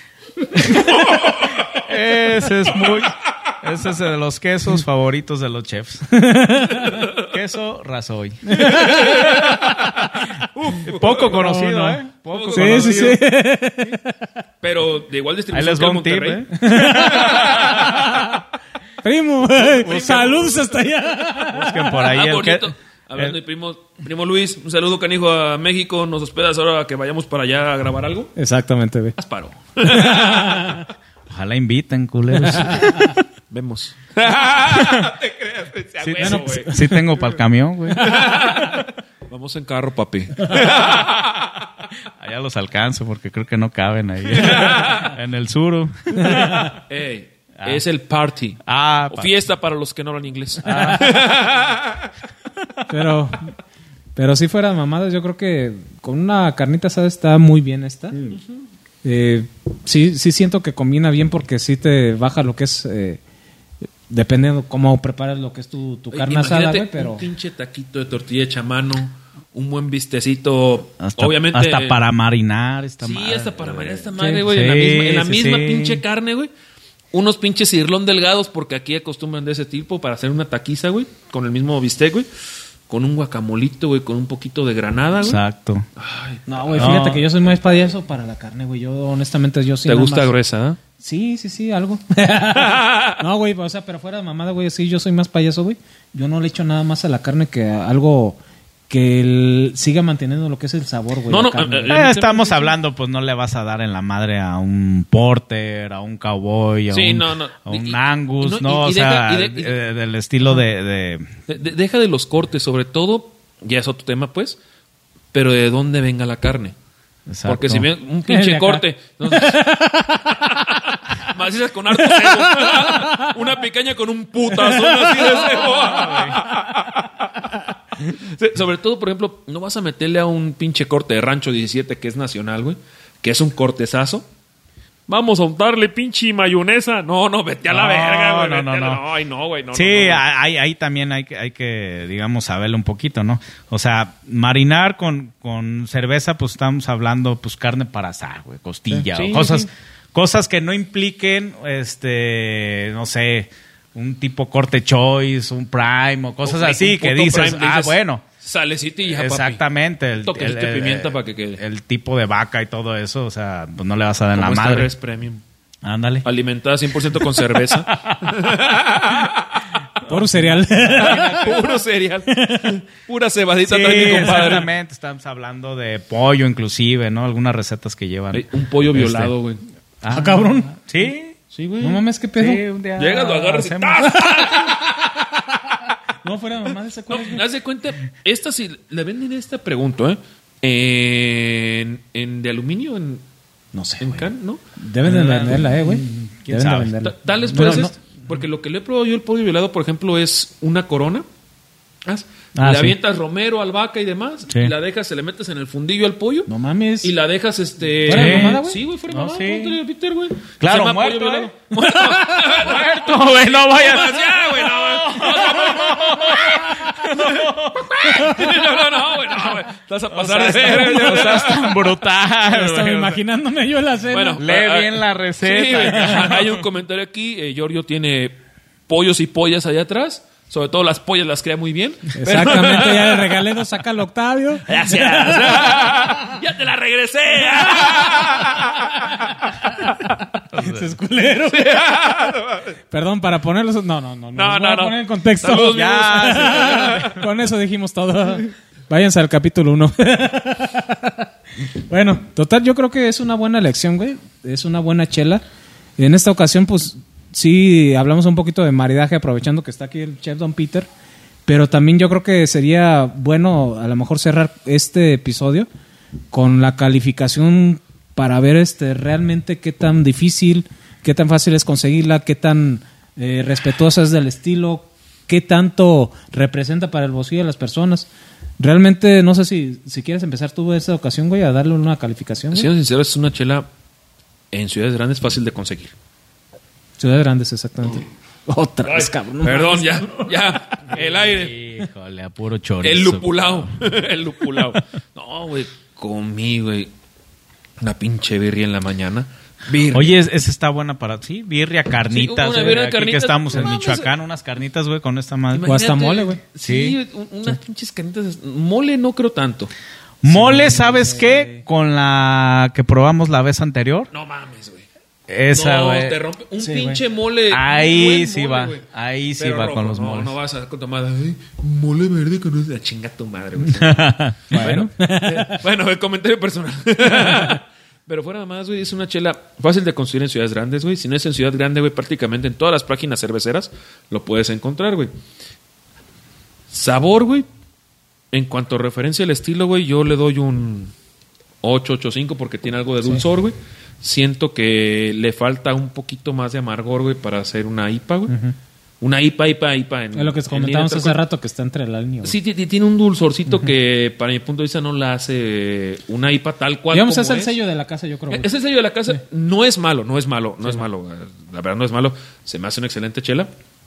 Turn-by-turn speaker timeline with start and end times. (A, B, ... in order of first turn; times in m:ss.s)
0:00.5-0:06.1 A
0:06.1-0:07.0 B
0:07.1-0:09.0 A
0:08.5-0:09.4 B
0:08.7-0:11.4 C
0:10.8-0:13.2 A
0:11.3-0:12.0 B
0:12.3-0:13.2 C
0:12.5-0:14.2 B
0:14.6-0:18.0 C
0:15.5-0:18.2 A
0:16.6-0:18.4 B
0:19.0-0:22.0 B
0:19.6-0:20.7 A
0:21.5-0:23.4 A
0:22.0-0:28.3 C
0:28.4-0:29.2 B
0:29.2-0:30.8 C
0:29.8-0:30.8 B
0:31.3-0:33.2 A
0:32.6-0:33.2 B
0:33.5-0:37.2 C
0:34.7-0:35.1 A
0:36.0-0:38.3 A
0:36.2-0:37.0 B
0:38.0-0:41.6 C
0:38.1-0:38.8 B
0:42.2-0:46.8 A
0:44.3-0:45.1 C
0:46.2-0:46.7 B
0:46.8-0:52.1 C
0:48.7-0:49.3 A
0:50.6-0:51.2 A
0:50.7-0:51.0 B
0:52.9-0:53.5 B
0:54.2-0:58.3 B
0:59.0-1:03.2 B
1:04.1-1:07.3 B
1:06.1-1:12.0 C
1:11.0-1:16.0 A
1:13.0-1:16.5 C
1:14.2-1:14.4 B
1:17.1-1:22.3 C
1:22.9-1:25.4 C
1:25.2-1:25.9 A
1:26.0-1:27.2 C
1:26.5-1:30.3 B
1:26.8-1:27.2 A
1:29.8-1:30.8 C
1:31.0-1:42.0 B
1:32.6-1:33.2 C
1:41.3-1:42.8 C
1:41.9-1:51.3 A
1:46.9-1:49.8 C
1:51.5-1:54.6 C
1:55.3-1:56.8 C
1:57.3-1:57.9 A
1:57.5-1:59.7 C
1:58.3-2:00.5 B
2:00.4-2:14.3 C
2:02.1-2:03.3 B
2:04.6-2:05.3 B
2:05.7-2:06.4 A
2:15.1-2:20.2 C
2:17.7-2:19.0 A
2:19.7-2:38.2 A
2:29.1-2:29.7 C
2:36.4-2:39.6 C
2:39.1-2:44.9 A
2:40.2-2:41.6 C
2:44.4-2:45.4 C
2:45.8-2:46.3 A
2:46.2-2:49.6 C
2:47.3-2:48.3 A
2:50.1-2:51.6 B
2:50.1-2:51.6 A
2:51.0-2:54.7 C
2:52.3-2:52.8 B
2:53.7-2:59.3 A
2:58.3-2:59.6 C
3:00.0-3:01.4 A
3:00.1-3:00.8 B
3:01.5-3:02.0 C
3:01.8-3:02.6 B
3:02.4-3:04.0 A
3:03.0-3:04.9 C
3:04.1-3:05.4 B
3:06.2-3:07.4 B
3:07.1-3:13.2 C
3:13.7-3:18.0 B
3:14.0-3:14.6 C
3:15.6-3:16.9 A
3:17.0-3:21.3 C
3:17.5-3:17.9 A
3:22.0-3:26.5 C
3:22.6-3:23.0 A
3:24.5-3:24.7 A
3:26.5-3:27.1 B
3:27.0-3:41.7 C
3:28.1-3:28.8 B
3:28.1-3:29.8 A
3:30.6-3:31.5 A
3:32.1-3:32.4 B
3:32.4-3:38.7 A
3:38.1-3:38.5 B
3:40.1-3:43.2 A
3:42.4-3:44.4 B
3:44.1-3:48.4 C
3:44.4-3:46.6 A
3:48.9-3:53.5 C
3:52.2-3:56.3 B
3:54.7-3:59.3 C
3:57.8-3:58.5 B
4:00.5-4:00.9 A
4:00.5-4:01.7 B
4:01.4-4:02.7 C
4:02.9-4:15.4 B
4:04.4-4:07.2 C
4:05.6-4:07.2 A
4:16.0-4:20.9 B
4:21.5-4:25.7 B
4:26.3-4:38.1 B
4:38.6-4:42.7 B
4:42.5-4:43.7 C
4:44.5-4:45.9 C
4:47.0-4:50.3 B
4:48.8-4:51.6 C
4:51.0-4:53.8 A
4:52.8-4:56.9 C
4:57.8-5:00.2 C
4:59.9-5:05.7 A
5:02.1-5:04.1 C
5:05.5-5:09.7 C
5:05.6-5:06.4 B
5:06.6-5:07.0 A
5:10.2-5:14.1 A
5:10.3-5:11.6 B
5:14.1-5:14.9 C
5:15.3-5:16.2 A
5:15.5-5:35.1 C
5:16.6-5:17.0 B
5:17.5-5:20.4 A
5:23.7-5:24.8 A
5:24.5-5:25.6 B
5:36.7-5:37.5 C
5:38.3-5:40.9 C
5:41.6-5:48.3 C
5:48.3-5:48.6 B
5:49.0-5:51.2 C
5:50.1-5:52.4 B
5:52.2-5:57.6 C
5:56.9-5:58.5 B
5:58.3-6:03.5 C